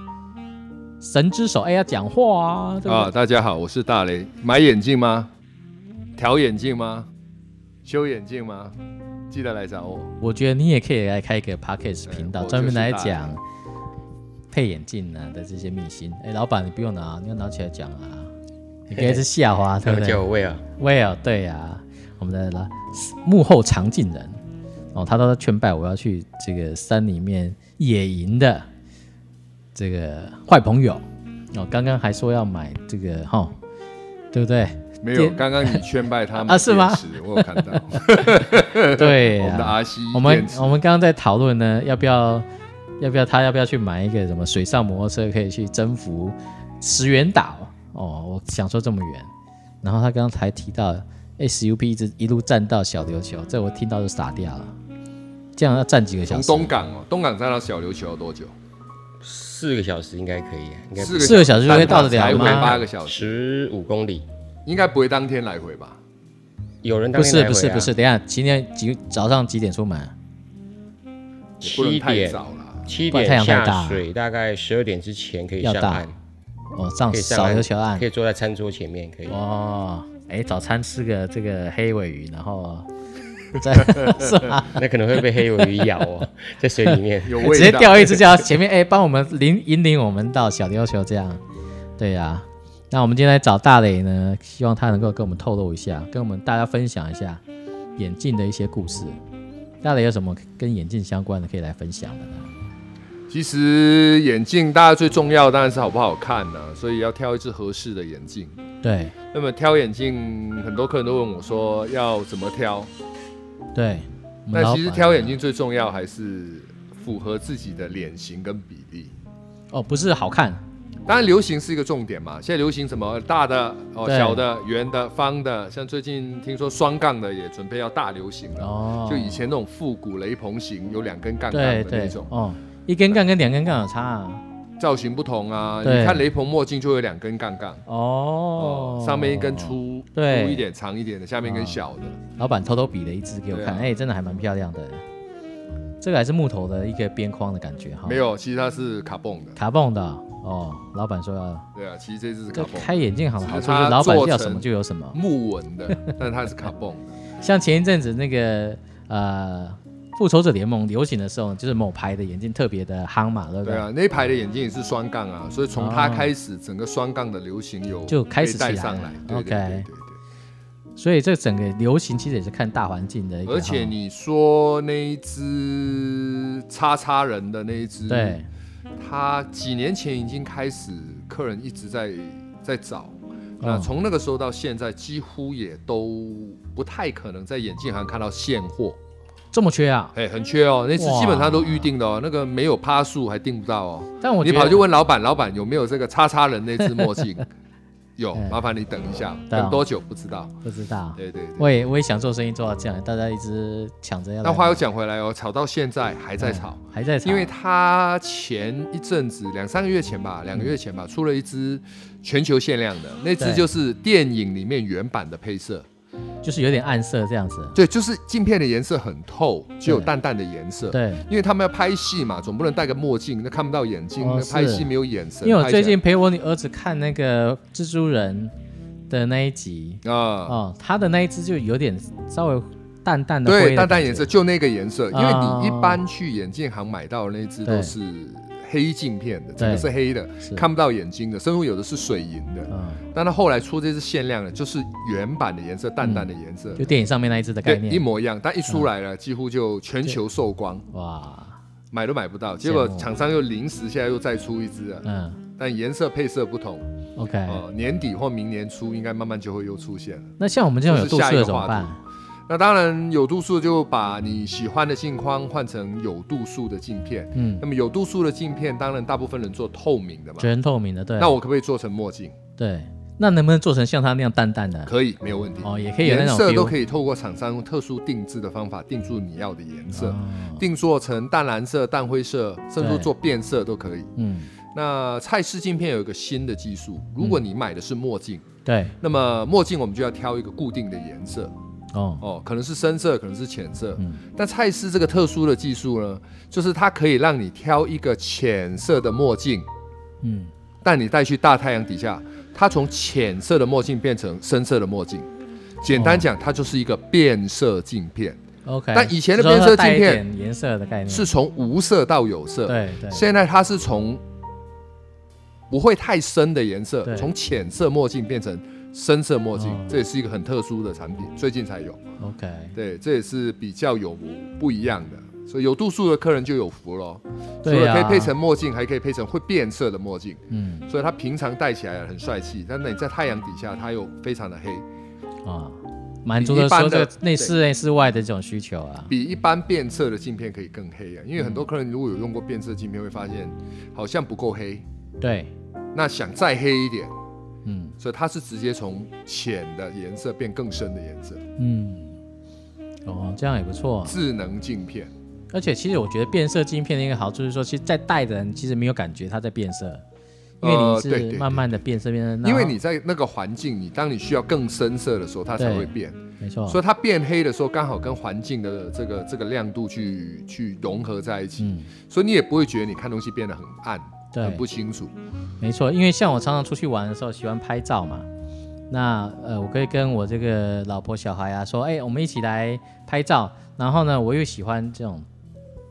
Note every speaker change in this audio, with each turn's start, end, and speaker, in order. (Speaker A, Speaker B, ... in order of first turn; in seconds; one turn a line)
Speaker A: 1.0-3.1
Speaker B: 2.9-5.3
Speaker B: 6.2-7.1
Speaker B: 7.8-8.8
Speaker B: 9.3-10.1
Speaker A: 10.2-13.4
Speaker B: 12.1-13.4
Speaker A: 14.5-18.3
Speaker A: 18.9-20.2
Speaker C: 18.9-19.2
Speaker C: 19.8-20.6
Speaker A: 20.8-24.4
Speaker A: 24.9-28.7
Speaker A: 29.8-33.6
Speaker A: 34.3-35.8
Speaker B: 35.0-40.8
Speaker A: 36.4-42.5
Speaker A: 43.0-49.3
Speaker A: 49.8-54.8
Speaker A: 55.6-56.7
Speaker B: 56.3-58.5
Speaker C: 59.2-64.2
Speaker B: 61.0-63.3
Speaker A: 61.2-62.7
Speaker B: 64.7-66.0
Speaker C: 66.8-67.9
Speaker A: 67.2-70.1
Speaker B: 71.6-72.9
Speaker C: 71.6-76.1
Speaker A: 73.1-74.0
Speaker A: 75.6-76.1
Speaker A: 76.7-78.0
Speaker C: 77.1-79.4
Speaker A: 79.3-82.9
Speaker A: 83.6-84.8
Speaker B: 84.0-84.3
Speaker C: 84.6-88.2
Speaker B: 87.2-88.2
Speaker A: 87.4-91.4
Speaker A: 92.0-97.4
Speaker A: 98.0-99.2
Speaker A: 99.8-102.5
Speaker B: 103.3-108.6
Speaker A: 108.8-109.2
Speaker B: 109.3-112.9
Speaker A: 113.8-115.4
Speaker B: 114.5-119.1
Speaker A: 119.7-120.6
Speaker B: 121.1-132.3
Speaker A: 124.0-124.4
Speaker A: 128.6-129.4
Speaker A: 131.5-134.4
Speaker B: 134.8-137.8
Speaker A: 135.8-136.3
Speaker A: 137.9-140.7
Speaker B: 138.6-142.2
Speaker A: 141.4-141.8
Speaker A: 142.4-145.0
Speaker B: 143.5-143.9
Speaker A: 146.0-148.2
Speaker B: 148.1-149.6
Speaker A: 149.6-151.7
Speaker B: 151.8-157.2
Speaker A: 152.5-155.2
Speaker A: 155.9-156.2
Speaker A: 157.4-163.8
Speaker B: 163.7-170.2
Speaker A: 165.8-166.3
Speaker A: 168.1-169.9
Speaker A: 171.0-173.9
Speaker B: 173.5-178.4
Speaker A: 178.1-178.5
Speaker B: 179.0-189.0
Speaker A: 183.6-183.9
Speaker A: 189.5-190.2
Speaker B: 190.2-197.4
Speaker A: 191.0-191.9
Speaker A: 194.2-194.8
Speaker A: 197.0-197.2
Speaker B: 198.2-200.5
Speaker A: 199.5-199.8
Speaker A: 200.6-204.8
Speaker B: 201.2-201.7
Speaker B: 204.4-215.9
Speaker A: 206.4-207.5
Speaker A: 213.4-213.7
Speaker A: 216.4-217.8
Speaker B: 217.8-226.0
Speaker A: 219.9-220.1
Speaker A: 220.9-221.2
Speaker A: 224.2-224.9
Speaker A: 225.4-228.5
Speaker A: 229.1-234.3
Speaker B: 230.0-230.6
Speaker B: 233.4-246.8
Speaker A: 235.1-236.0
Speaker A: 237.7-237.9
Speaker A: 239.6-239.9
Speaker A: 242.7-243.0
Speaker A: 246.0-248.1
Speaker B: 247.7-250.9
Speaker A: 250.9-251.6
Speaker B: 251.9-255.1
Speaker A: 252.6-253.1
Speaker A: 255.0-255.4
Speaker B: 255.6-256.9
Speaker A: 257.2-257.6
Speaker B: 257.5-260.3
Speaker A: 260.4-262.0
Speaker B: 260.9-261.9
Speaker B: 262.5-270.5
Speaker A: 267.4-267.6
Speaker A: 270.4-271.4
Speaker B: 271.2-272.4
Speaker A: 272.6-274.9
Speaker B: 274.9-284.1
Speaker A: 275.6-276.8
Speaker A: 279.9-280.6
Speaker A: 282.8-283.1
Speaker A: 284.2-284.5
Speaker B: 284.7-288.5
Speaker A: 288.7-289.0
Speaker B: 289.0-291.5
Speaker A: 291.9-292.2
Speaker B: 292.2-299.7
Speaker A: 294.0-294.2
Speaker A: 300.2-300.5
Speaker B: 300.8-305.3
Speaker B: 305.8-308.4
Speaker A: 305.9-306.3
Speaker A: 308.6-311.3
Speaker B: 308.9-310.2
Speaker B: 311.1-314.2
Speaker A: 312.7-313.3
Speaker B: 315.7-322.0
Speaker A: 317.1-317.3
Speaker A: 319.6-319.9
Speaker A: 322.2-322.8
Speaker B: 322.8-334.9
Speaker A: 327.6-328.3
Speaker A: 330.5-330.9
Speaker A: 335.4-339.1
Speaker B: 336.4-337.5
Speaker B: 339.1-344.9
Speaker A: 341.4-341.6
Speaker A: 345.2-345.5
Speaker B: 345.9-347.1
Speaker A: 347.6-347.9
Speaker B: 348.0-351.4
Speaker A: 351.6-352.2
Speaker A: 353.1-354.2
Speaker B: 354.1-355.1
Speaker A: 355.5-360.0
Speaker B: 360.6-361.8
Speaker A: 360.6-362.8
Speaker B: 362.4-375.1
Speaker A: 365.6-366.8
Speaker A: 371.6-371.9
Speaker A: 374.3-374.6
Speaker A: 375.6-378.3
Speaker A: 378.9-385.3